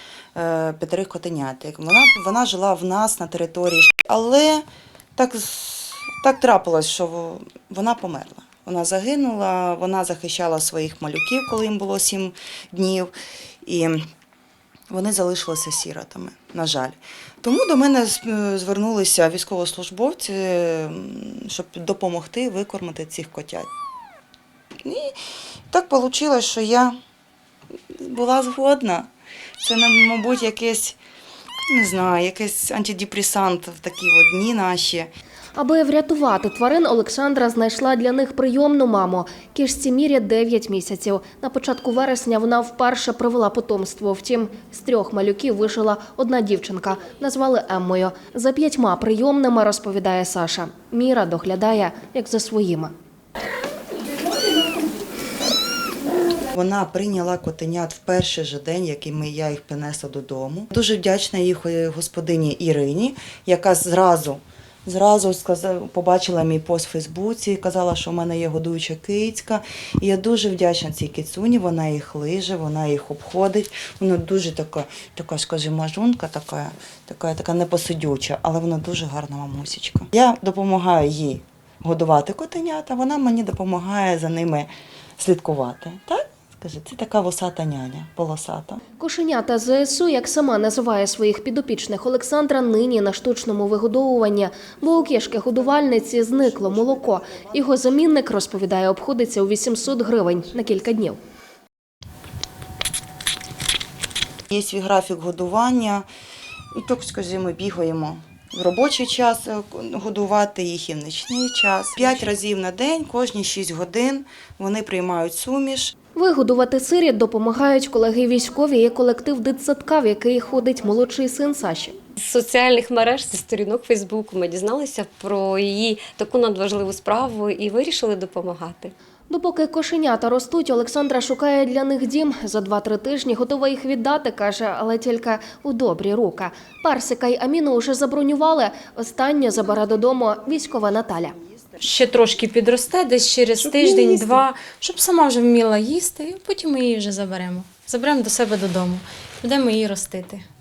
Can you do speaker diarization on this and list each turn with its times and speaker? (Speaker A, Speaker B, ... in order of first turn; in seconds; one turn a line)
Speaker A: 0.3-13.1
Speaker A: 13.6-14.0
Speaker A: 14.9-23.7
Speaker A: 24.8-25.2
Speaker A: 25.7-26.9
Speaker A: 27.9-29.1
Speaker A: 29.6-31.0
Speaker A: 31.7-35.1
Speaker B: 35.5-52.9
Speaker A: 56.5-88.8
Speaker B: 89.0-101.2
Speaker A: 104.5-106.0
Speaker A: 106.7-115.9
Speaker B: 116.2-122.0
Speaker C: 122.2-128.9
Speaker B: 129.3-141.3
Speaker D: 141.8-150.4